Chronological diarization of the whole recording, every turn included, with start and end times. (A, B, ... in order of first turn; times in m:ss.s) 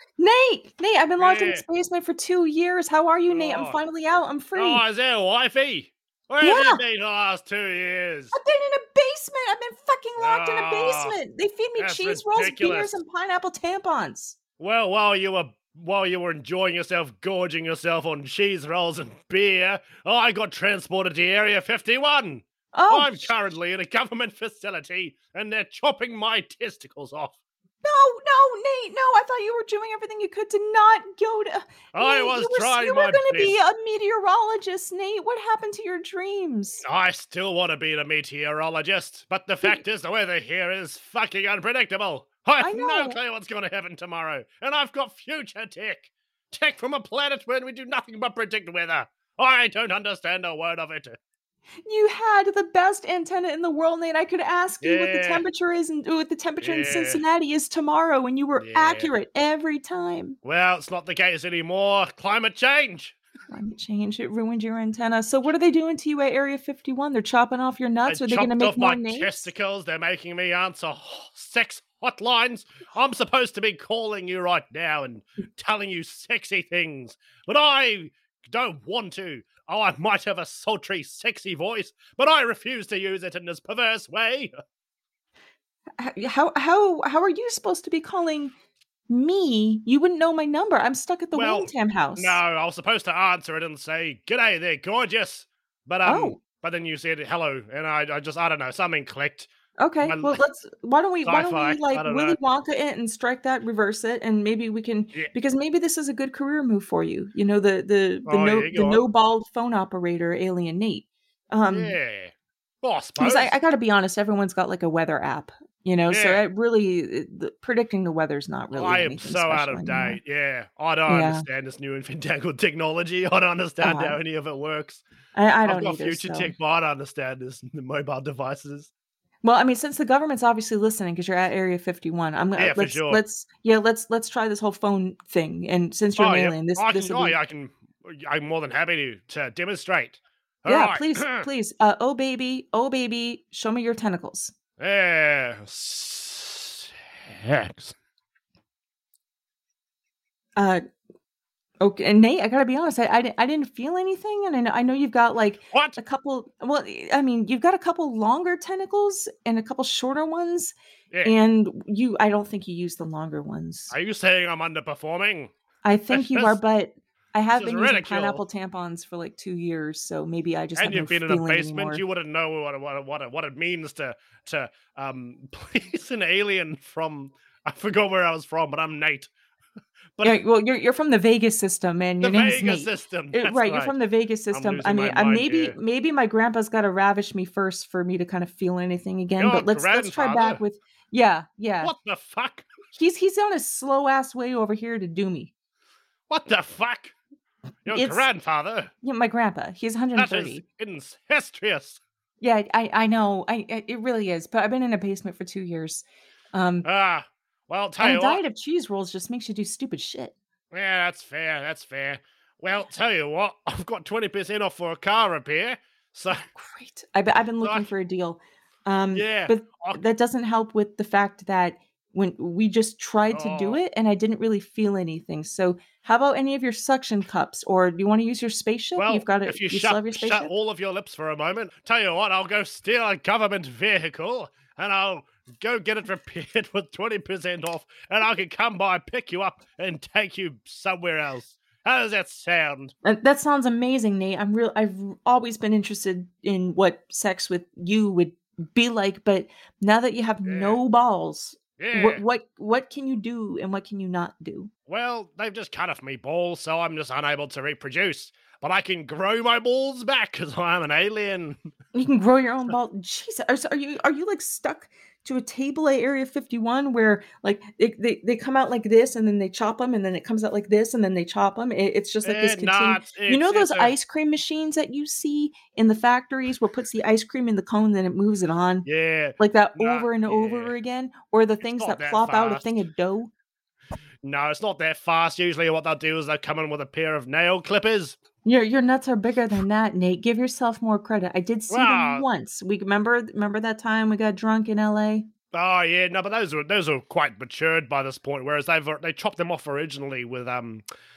0:00.2-0:04.8 A
0:01.2-0:01.6 B
0:03.3-0:03.8 B
0:04.6-0:08.3 B
0:06.4-0:06.8 A
0:08.3-0:14.4 A
0:10.2-0:11.2 B
0:11.8-0:13.0 B
0:14.6-0:27.3 B
0:22.7-0:23.3 A
0:27.8-0:36.8 A
0:31.9-0:33.6 B
0:36.8-0:51.2 B
0:42.6-0:43.2 A
0:51.8-1:00.4 A
0:54.8-0:55.4 B
0:56.6-0:57.2 B
0:58.6-0:59.1 B
1:00.4-1:03.1 B
1:03.5-1:09.5 A
1:08.1-1:24.5 B
1:26.0-1:28.5 A
1:29.1-1:32.4 A
1:31.3-1:39.5 B
1:36.0-1:36.4 A
1:39.8-1:52.0 A
1:40.0-1:40.4 B
1:41.2-1:42.4 B
1:48.2-1:49.0 B
1:51.7-1:53.5 B
1:53.2-2:00.2 A
1:56.1-1:56.4 B
1:58.7-2:05.0 B
2:01.1-2:01.4 A
2:03.8-2:04.2 A
2:05.3-2:06.5 A
2:05.6-2:08.9 B
2:09.4-2:17.4 A
2:12.6-2:13.2 B
2:16.2-2:21.5 B
2:20.7-2:24.5 A
2:24.8-2:27.9 B
2:30.6-2:30.8 A
2:31.8-2:40.7 A
2:35.7-2:36.0 B
2:41.2-2:43.9 A
2:43.9-2:45.5 B
2:45.8-2:52.0 A
2:46.1-2:46.6 B
2:47.5-2:48.4 B
2:50.8-2:59.3 B
3:00.2-3:11.9 A
3:02.2-3:03.9 B
3:04.5-3:05.8 B
3:09.4-3:10.6 B
3:11.8-3:12.7 B
3:12.9-3:15.5 A
3:16.3-3:17.1 B
3:17.8-3:18.9 B
3:17.9-3:18.2 A
3:19.0-3:20.6 A
3:20.1-3:22.0 B
3:22.4-3:26.8 A
3:26.8-3:28.4 B
3:28.0-3:30.3 A
3:30.7-3:36.5 B
3:36.6-3:50.5 A
3:37.6-3:37.8 B
3:39.1-3:40.0 B
3:43.3-3:43.8 B
3:49.0-4:02.9 B
4:03.0-4:14.7 A
4:10.5-4:10.8 B
4:11.8-4:12.2 B
4:14.9-4:21.6 B
4:21.9-4:38.9 A
4:32.2-4:33.9 B
4:38.8-4:40.7 B
4:39.4-4:43.3 A
4:41.6-4:42.7 B
4:44.2-4:48.2 B
4:48.4-4:55.3 A
4:51.7-4:52.2 B
4:55.5-5:00.8 B